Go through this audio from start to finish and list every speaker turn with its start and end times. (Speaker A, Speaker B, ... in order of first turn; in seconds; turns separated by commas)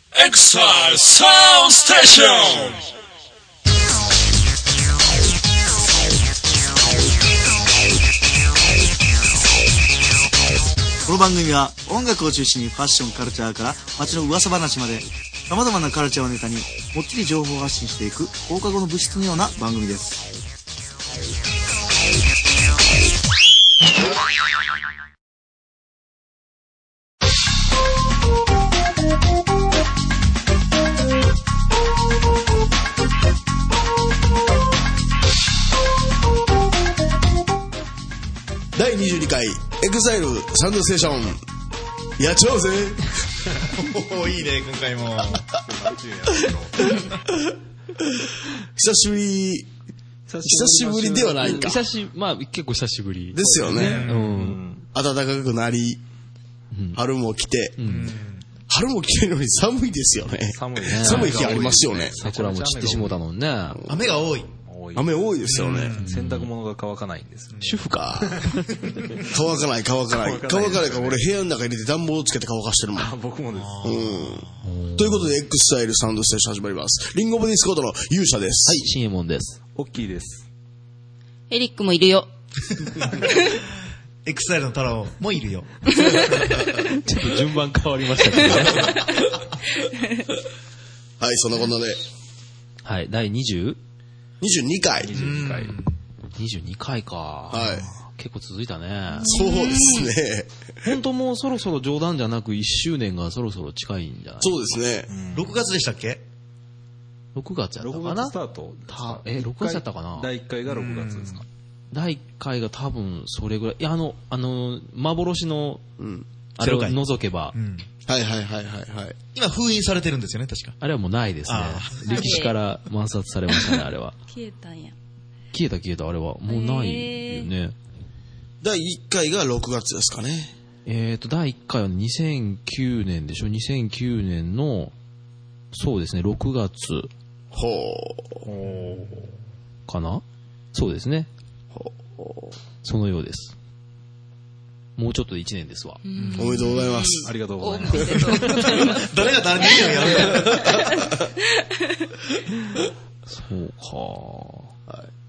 Speaker A: 0.3-1.0, Speaker A: 1.9-2.8, Speaker B: 11.1-20.2, Speaker A: 38.8-41.4, Speaker A: 42.2-43.4, Speaker C: 43.7-45.4, Speaker D: 45.3-47.0, Speaker A: 48.8-49.7, Speaker D: 50.3-51.4, Speaker A: 50.4-51.8, Speaker E: 51.4-54.6, Speaker A: 53.3-54.1, Speaker D: 53.7-54.9, Speaker C: 53.9-54.3, Speaker A: 54.9-56.0, Speaker E: 56.7-57.0, Speaker A: 56.9-57.8, Speaker E: 57.8-58.1, Speaker C: 57.8-58.5, Speaker A: 58.7-62.2, Speaker D: 60.5-63.2, Speaker E: 60.8-61.5, Speaker C: 61.2-61.8, Speaker E: 62.2-63.8, Speaker A: 63.7-64.0, Speaker C: 63.9-64.5, Speaker D: 64.7-65.1, Speaker A: 65.0-66.0, Speaker C: 65.5-66.2, Speaker E: 66.0-66.5, Speaker D: 66.1-67.6, Speaker C: 67.5-67.9, Speaker E: 67.6-69.0, Speaker A: 67.9-68.4, Speaker D: 68.2-68.5, Speaker C: 68.8-69.3, Speaker A: 69.3-73.1, Speaker D: 70.1-71.2, Speaker D: 73.0-74.2, Speaker C: 73.5-74.6, Speaker A: 73.8-78.9, Speaker E: 74.6-75.3, Speaker E: 78.7-79.6, Speaker D: 79.8-80.5, Speaker F: 81.5-82.3, Speaker C: 83.0-83.3, Speaker C: 84.2-86.2, Speaker E: 87.0-89.0, Speaker A: 91.2-92.0, Speaker E: 92.8-93.8, Speaker A: 94.4-95.3, Speaker D: 95.0-95.8, Speaker C: 95.2-96.0, Speaker E: 96.3-99.3, Speaker A: 97.5-97.9, Speaker F: 99.2-100.1, Speaker A: 99.2-100.5, Speaker E: 100.8-104.6, Speaker A: 104.4-105.1, Speaker D: 105.1-105.6, Speaker C: 105.3-106.2, Speaker E: 107.3-108.3, Speaker D: 107.8-111.5, Speaker E: 108.9-110.3, Speaker C: 110.7-111.4, Speaker E: 111.9-115.8, Speaker A: 116.0-116.3, Speaker E: 116.6-117.5, Speaker C: 116.6-117.9, Speaker A: 118.1-119.2, Speaker C: 119.3-120.8, Speaker E: 120.8-124.2, Speaker C: 121.5-122.4, Speaker F: 122.0-122.6, Speaker F: 123.5-123.8, Speaker F: 124.3-125.0, Speaker E: 125.5-127.8, Speaker F: 126.5-127.5, Speaker A: 128.6-130.5, Speaker E: 130.8-134.9, Speaker E: 135.7-137.1, Speaker A: 137.5-138.4, Speaker D: 138.4-139.3, Speaker E: 139.9-141.3, Speaker A: 141.7-142.6, Speaker E: 142.8-143.5, Speaker E: 145.0-146.0, Speaker F: 146.1-149.1, Speaker C: 146.2-146.7, Speaker A: 146.3-147.3, Speaker D: 147.2-148.9, Speaker C: 148.8-150.8, Speaker F: 149.6-150.8, Speaker A: 150.2-150.9, Speaker E: 153.3-154.7